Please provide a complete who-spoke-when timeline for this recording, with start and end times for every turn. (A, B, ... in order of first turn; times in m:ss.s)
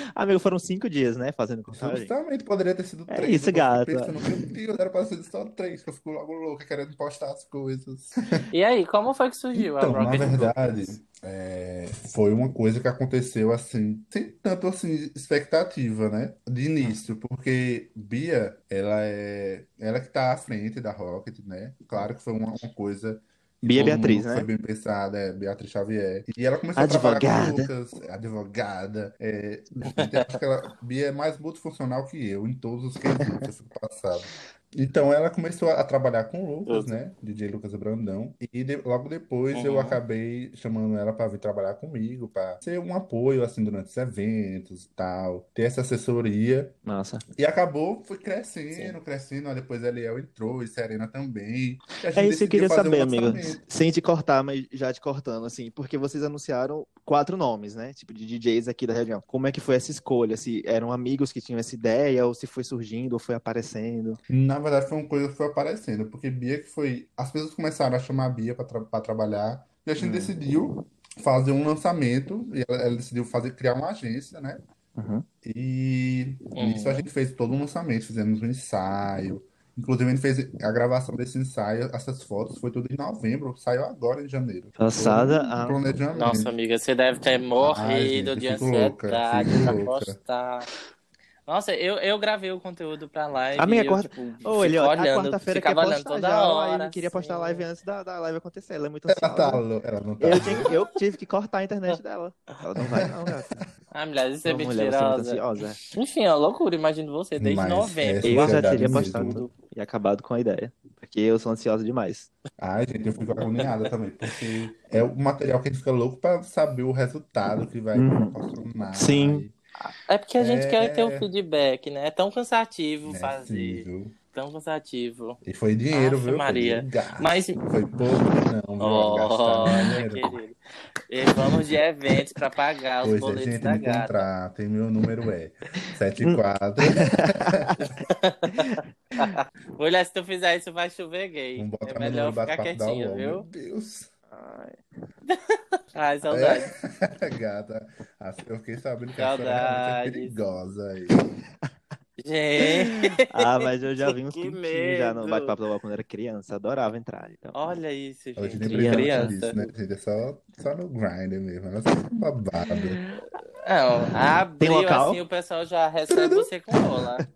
0:00.2-0:02.1 A
0:01.7-0:08.5 B
0:03.1-0:04.5 A
0:08.5-0:10.9 C
0:09.5-0:46.8 B
0:23.6-0:24.5 A
0:26.8-0:27.7 A
0:29.9-0:30.3 C
0:33.2-0:33.5 A
0:36.6-0:37.0 C
0:39.5-0:40.0 C
0:46.8-0:47.2 A
0:47.4-0:53.6 B
0:52.1-1:04.2 A
1:04.3-1:14.6 B
1:10.0-1:10.3 A
1:15.0-1:15.2 A
1:15.4-1:26.5 B
1:16.6-1:17.1 C
1:24.8-1:25.8 A
1:26.2-1:30.7 C
1:27.6-1:30.2 B
1:31.5-1:37.7 C
1:33.6-1:39.6 A
1:39.1-1:40.8 B
1:40.2-1:43.6 A
1:40.4-1:40.8 C
1:42.8-1:43.6 B
1:43.9-1:45.4 C
1:44.4-1:45.8 A
1:45.9-1:49.5 C
1:47.4-1:49.4 B
1:48.2-1:52.3 A
1:52.6-1:59.5 B
1:57.9-1:58.4 A
1:58.9-1:59.4 A
1:59.8-2:05.4 C
2:00.4-2:01.3 B
2:03.0-2:04.2 B
2:05.4-2:10.4 B
2:05.9-2:07.6 C
2:08.8-2:10.6 C
2:11.1-2:14.3 C
2:13.0-2:17.8 B
2:16.2-2:17.7 A
2:17.8-2:23.4 C
2:21.6-2:24.1 B
2:24.3-2:24.8 A
2:25.3-2:26.7 C
2:26.3-2:31.2 B
2:29.2-2:30.4 C
2:32.2-2:35.6 C
2:32.6-2:37.8 A
2:37.5-2:39.6 C
2:38.4-2:43.0 B
2:38.6-2:39.3 A
2:42.6-2:43.2 A
2:43.3-2:47.2 C
2:44.6-2:45.2 A
2:46.1-2:46.5 B